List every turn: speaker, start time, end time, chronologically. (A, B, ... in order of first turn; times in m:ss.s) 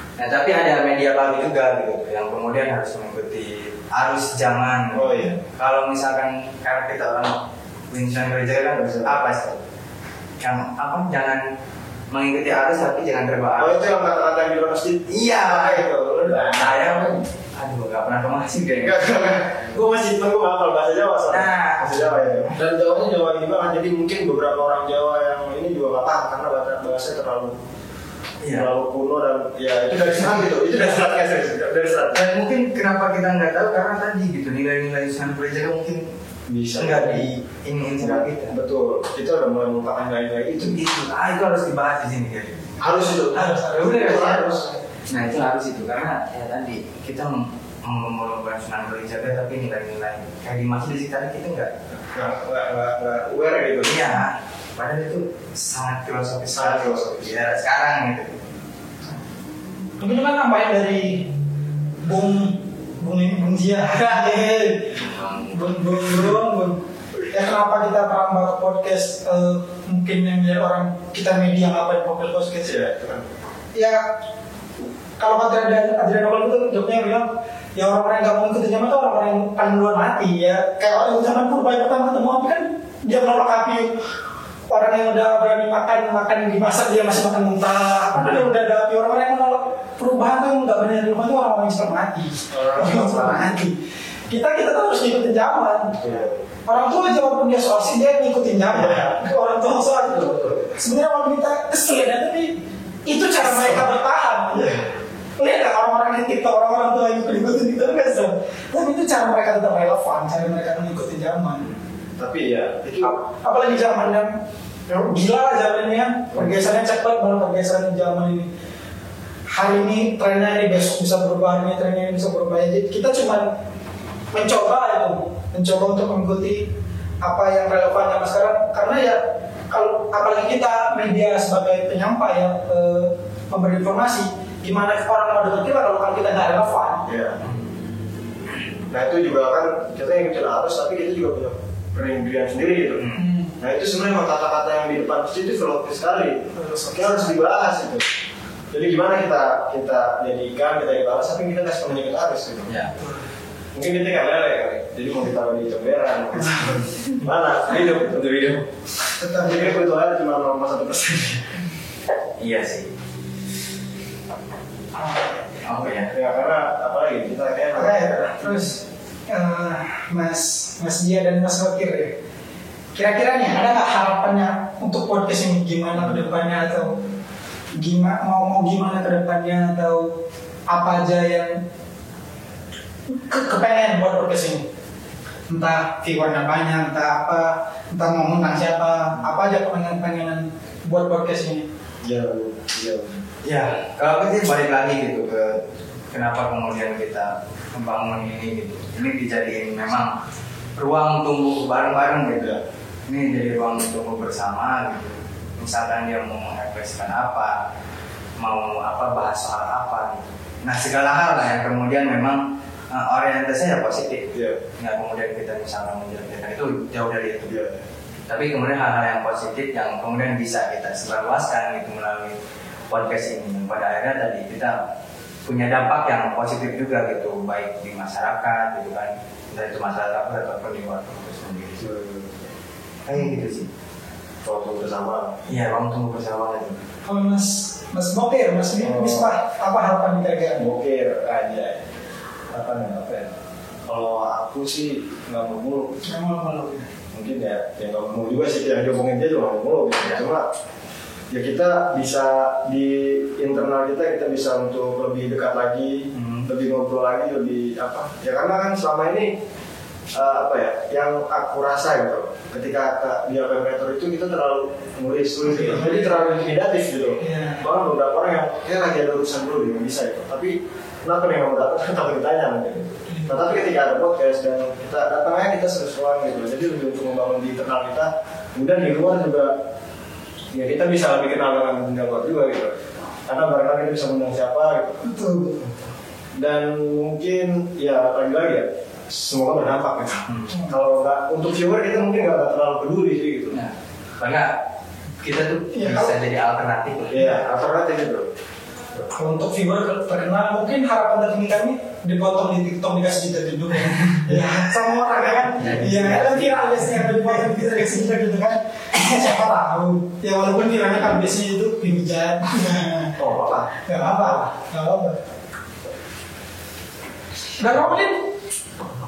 0:00.2-0:09.6 A
0:04.9-0:05.4 B
0:08.8-0:09.3 B
0:10.4-0:11.4 A
0:12.1-0:13.9 A
0:13.6-0:17.2 B
0:15.1-0:19.1 A
0:18.8-0:27.5 B
0:21.3-0:22.2 A
0:28.4-0:28.7 A
0:28.5-0:32.2 B
0:32.1-0:36.0 A
0:36.5-0:37.2 B
0:36.8-0:38.5 A
0:38.0-0:40.8 B
0:40.6-0:43.2 A
0:42.8-0:44.7 B
0:42.8-0:44.8 C
0:43.7-0:44.4 A
0:45.1-0:51.8 A
0:52.1-0:54.1 B
0:53.8-0:58.4 A
0:56.5-0:57.4 B
1:00.0-1:01.3 C
1:02.0-1:12.8 C
1:04.2-1:06.3 A
1:12.6-1:13.3 B
1:13.7-1:14.0 C
1:15.2-1:24.0 C
1:24.7-1:33.8 C
1:32.5-1:33.5 B
1:34.3-1:36.0 C
1:35.9-1:36.4 B
1:36.6-1:42.6 C
1:38.7-1:39.2 B
1:43.1-1:44.7 C
1:43.4-1:43.9 B
1:44.5-1:44.9 B
1:45.4-1:51.7 C
1:52.2-1:53.2 B
1:53.0-1:54.3 C
1:54.9-1:58.5 C
1:59.5-2:03.5 C
2:04.3-2:06.7 C
2:07.2-2:17.0 C
2:17.0-2:17.4 B
2:18.9-2:23.0 B
2:23.0-2:23.3 A
2:23.1-2:23.6 C
2:23.6-2:28.0 B
2:26.5-2:27.3 C
2:28.7-2:32.7 B
2:32.7-2:33.0 A
2:33.7-2:38.7 B
2:36.4-2:36.8 C
2:39.2-2:39.7 C
2:39.4-2:41.5 B
2:42.4-2:42.9 A
2:45.0-2:45.4 C
2:45.6-2:46.1 A
2:45.8-2:48.5 B
2:47.7-2:52.1 C
2:52.9-2:57.0 C
2:56.0-2:57.1 B
2:57.7-3:00.1 C
3:00.7-3:01.6 C
3:03.1-3:04.6 C
3:05.5-3:11.6 C
3:12.0-3:13.2 B
3:13.4-3:20.1 A
3:20.8-3:27.6 A
3:22.3-3:22.6 B
3:28.4-3:37.5 A
3:34.3-3:34.6 B
3:37.4-3:37.8 B
3:38.3-3:42.4 A
3:42.9-3:44.8 A
3:45.4-3:51.8 A
3:51.8-3:52.5 B
3:53.0-3:53.7 A
3:54.4-3:55.4 B
3:55.5-3:56.8 A
3:57.0-4:00.6 C
3:58.8-3:59.3 B
4:00.6-4:01.8 B
4:02.5-4:03.3 B
4:03.8-4:06.0 B
4:06.0-4:06.9 C
4:07.1-4:10.4 B
4:11.3-4:19.3 B
4:16.1-4:16.5 A
4:20.1-4:39.5 B
4:25.6-4:26.1 C
4:27.2-4:27.6 C
4:33.1-4:33.4 C
4:40.5-4:45.0 B
4:45.0-4:45.6 C
4:46.4-4:53.6 B
4:53.5-4:54.5 A
4:55.2-4:57.3 A
4:55.7-4:56.1 C
4:57.1-4:58.3 B
4:59.2-5:13.2 C
5:05.6-5:07.3 A
5:13.2-5:14.4 B
5:13.9-5:15.2 C
5:17.6-5:18.2 C